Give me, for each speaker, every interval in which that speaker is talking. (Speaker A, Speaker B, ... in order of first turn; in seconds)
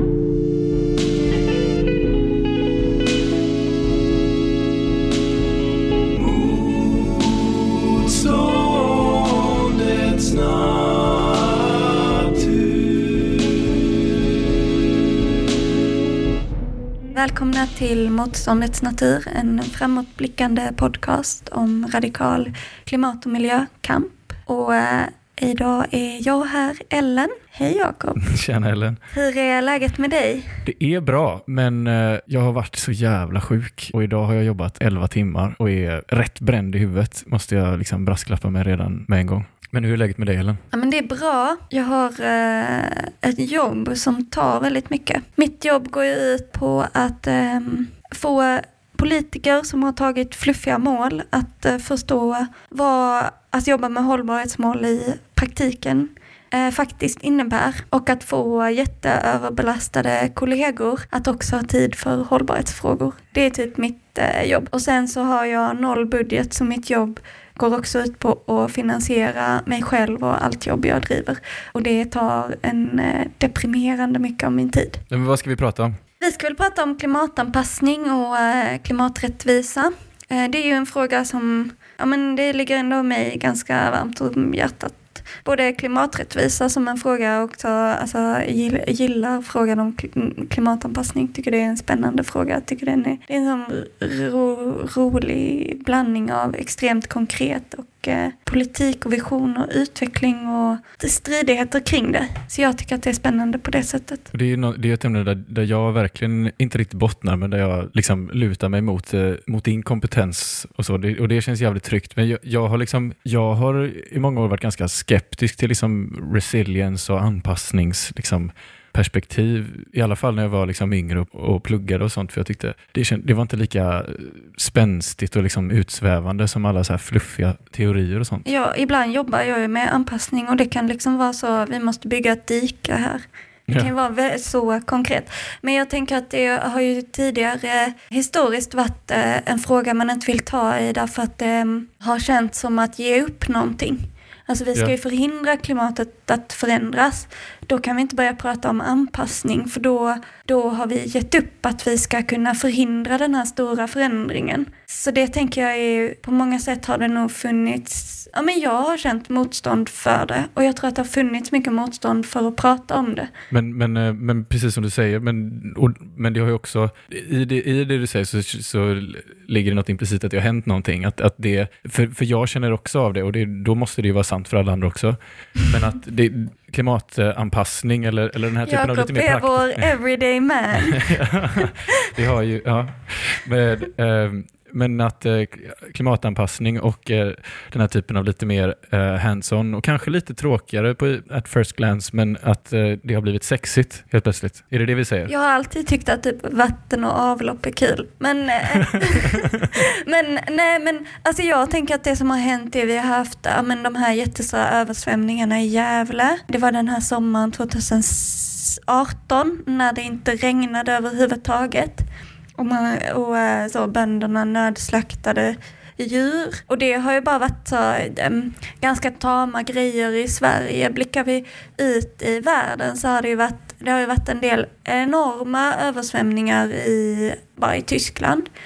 Speaker A: 6.2-13.3, 28.2-29.0, 30.6-40.6, 75.1-75.9, 104.3-128.4, 163.5-179.9, 180.8-195.3
Speaker B: 17.1-28.2, 29.1-30.6, 40.7-75.0, 76.2-104.3, 128.4-163.3, 178.7-182.1, 195.3-212.0, 212.6-228.5